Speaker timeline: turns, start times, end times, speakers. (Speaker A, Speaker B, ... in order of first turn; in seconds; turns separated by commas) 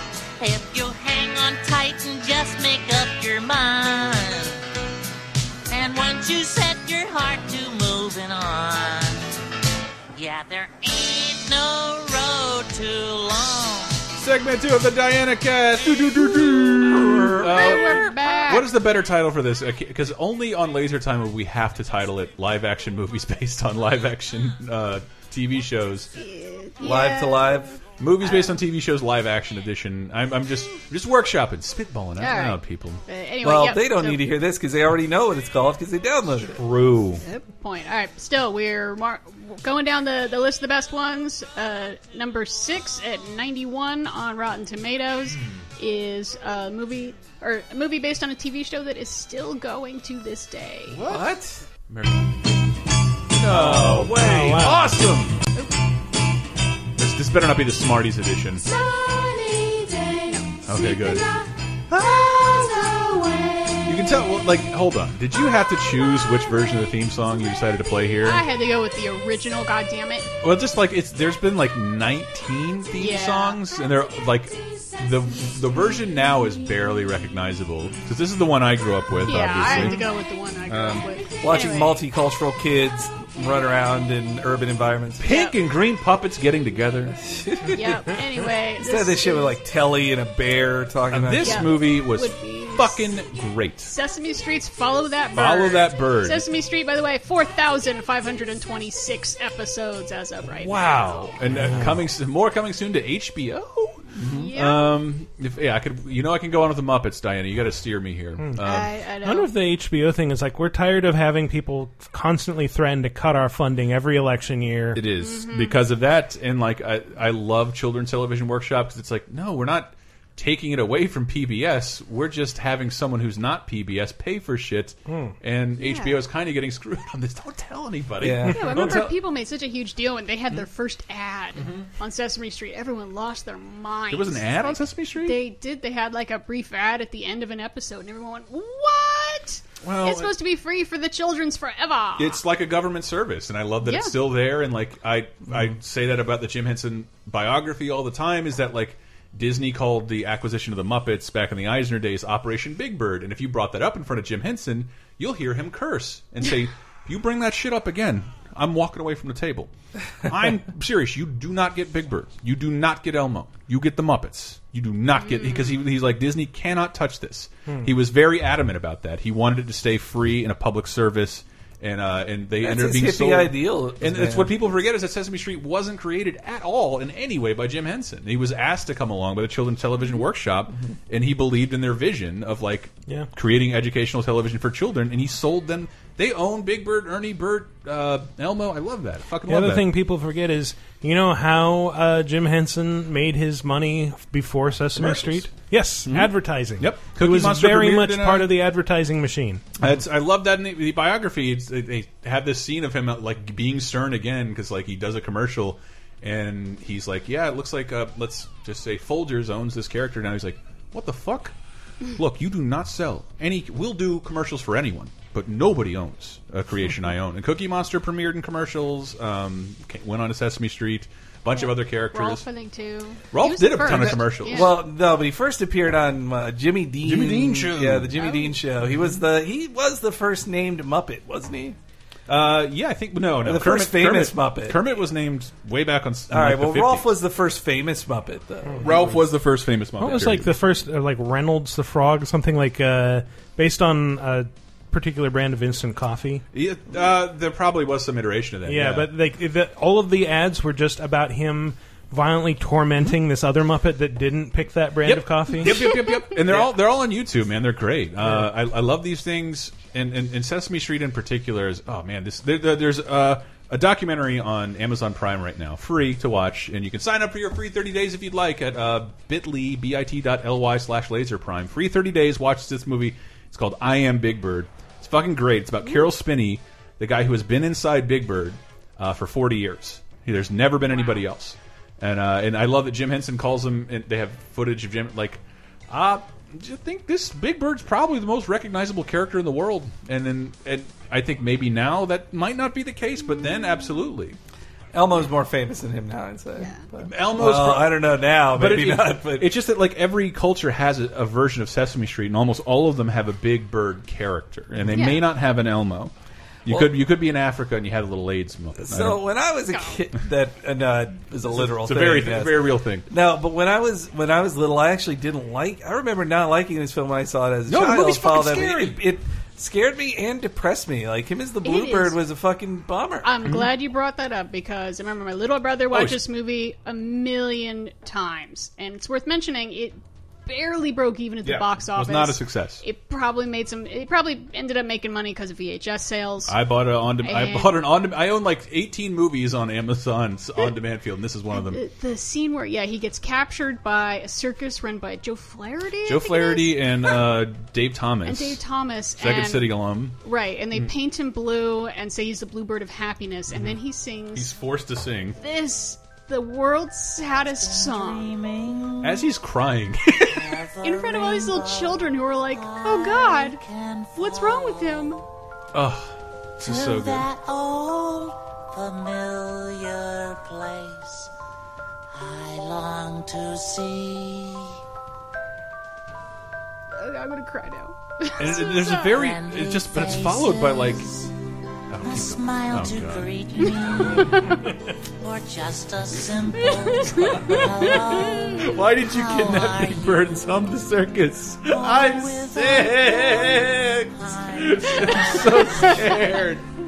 Speaker A: 0.4-4.6, Speaker A: 5.7-9.3, Speaker A: 10.2-14.1, Speaker B: 14.2-26.1, Speaker C: 16.9-17.8, Speaker D: 17.4-18.7, Speaker D: 26.1-27.6, Speaker C: 26.8-27.8, Speaker B: 28.0-33.0, Speaker D: 28.2-28.6, Speaker D: 32.2-34.2, Speaker C: 33.4-36.6, Speaker B: 36.6-37.2, Speaker D: 37.2-51.0, Speaker B: 45.3-45.6, Speaker B: 50.9-51.3, Speaker C: 51.1-51.6, Speaker B: 51.9-52.3, Speaker B: 53.3-55.4, Speaker C: 53.5-54.7, Speaker E: 53.5-54.9, Speaker B: 57.0-58.7, Speaker A: 58.9-60.3, Speaker D: 60.2-60.6, Speaker B: 60.6-61.3, Speaker B: 61.9-62.9, Speaker A: 62.8-63.7, Speaker B: 63.8-68.5, Speaker D: 68.2-70.3, Speaker B: 70.4-80.1, Speaker D: 73.0-73.6, Speaker D: 79.3-82.0, Speaker B: 80.7-81.0, Speaker C: 81.4-85.3, Speaker B: 85.2-87.2, Speaker D: 85.3-85.5, Speaker C: 87.2-88.2, Speaker D: 87.7-89.6, Speaker C: 88.8-91.7, Speaker B: 91.1-93.9, Speaker D: 91.4-93.1, Speaker D: 93.9-101.1, Speaker B: 95.3-96.4, Speaker B: 100.6-108.9, Speaker E: 101.5-102.0, Speaker D: 104.3-105.0, Speaker D: 108.6-109.5, Speaker E: 109.2-115.0, Speaker B: 115.0-128.8, Speaker D: 115.2-115.8, Speaker E: 125.1-125.3, Speaker D: 125.8-126.2, Speaker C: 128.2-129.1, Speaker D: 128.5-142.4, Speaker B: 131.6-131.9, Speaker B: 134.1-135.4, Speaker B: 139.8-140.3, Speaker B: 142.2-159.7, Speaker D: 143.8-144.1, Speaker B: 160.2-189.9, Speaker D: 165.2-165.8, Speaker C: 172.6-174.6, Speaker E: 189.5-199.7, Speaker B: 194.9-195.5, Speaker B: 196.0-198.5, Speaker B: 199.8-211.6, Speaker B: 212.1-222.4, Speaker D: 221.5-224.8, Speaker B: 223.3-224.8, Speaker C: 223.9-231.8, Speaker B: 227.0-228.1, Speaker D: 228.2-228.6, Speaker B: 232.3-237.1, Speaker C: 233.4-234.8, Speaker C: 236.3-239.2, Speaker B: 238.8-240.5, Speaker E: 240.0-246.4, Speaker B: 246.5-249.1, Speaker E: 248.7-255.8, Speaker B: 255.0-294.4, Speaker C: 294.9-299.6, Speaker D: 296.6-296.8, Speaker B: 297.0-306.1, Speaker D: 304.9-305.2, Speaker B: 306.7-309.2, Speaker C: 306.7-306.9, Speaker C: 308.8-323.3, Speaker D: 309.7-310.0, Speaker B: 311.5-313.1, Speaker B: 317.7-319.0, Speaker D: 321.6-322.2, Speaker D: 323.2-336.6, Speaker B: 325.9-326.2, Speaker B: 331.4-332.8, Speaker B: 336.5-341.8, Speaker D: 337.2-337.8, Speaker D: 341.5-347.2, Speaker B: 346.1-348.6, Speaker D: 348.2-349.7, Speaker B: 349.2-350.2, Speaker D: 350.2-354.6, Speaker B: 353.5-353.8, Speaker B: 354.4-355.4, Speaker D: 355.4-358.3, Speaker A: 357.4-359.3, Speaker B: 359.0-360.6, Speaker A: 360.2-365.2, Speaker D: 360.8-363.6, Speaker D: 364.1-365.2, Speaker B: 365.7-367.3, Speaker A: 366.6-371.3, Speaker A: 372.1-374.7, Speaker D: 376.9-379.1, Speaker B: 378.4-381.1, Speaker A: 378.9-381.3, Speaker B: 381.9-383.3, Speaker A: 382.0-390.9, Speaker D: 383.6-384.7, Speaker D: 386.6-388.6, Speaker B: 388.6-396.7, Speaker A: 391.6-396.5